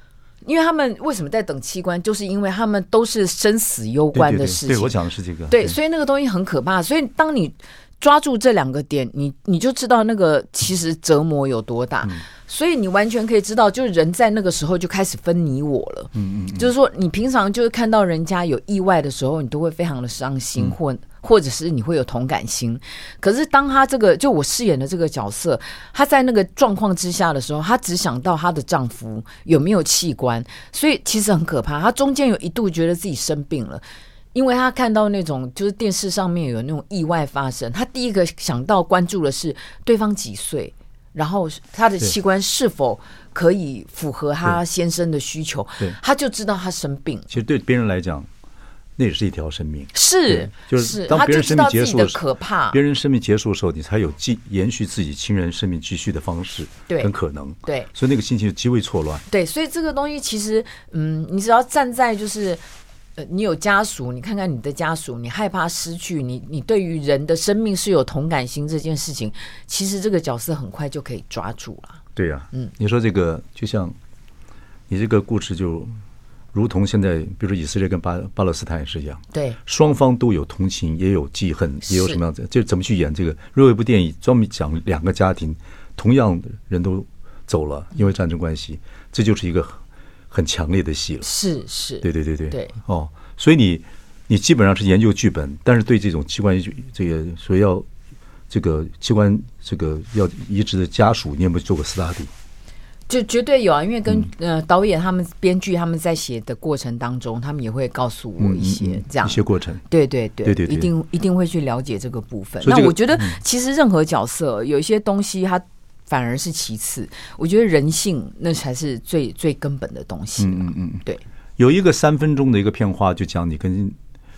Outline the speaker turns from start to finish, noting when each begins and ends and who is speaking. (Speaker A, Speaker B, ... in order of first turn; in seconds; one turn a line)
Speaker A: 0.4-5.0
Speaker B: 4.1-5.8
Speaker A: 5.5-47.3
Speaker B: 16.1-16.7
Speaker B: 47.3-48.3
Speaker B: 49.0-52.2
Speaker A: 49.9-52.8
Speaker B: 52.7-59.2
Speaker A: 57.6-57.9
Speaker A: 59.3-62.6
Speaker A: 63.2-72.0
Speaker B: 72.2-74.0
Speaker B: 74.9-75.9
Speaker B: 76.5-91.3
Speaker A: 79.3-79.6
Speaker A: 81.9-82.2
Speaker A: 91.2-92.7
Speaker B: 92.0-97.9
Speaker B: 98.5-102.3
Speaker A: 103.1-121.2
Speaker B: 108.4-109.8
Speaker B: 110.5-110.9
Speaker B: 112.6-113.4
Speaker B: 120.4-121.0
Speaker B: 121.6-124.0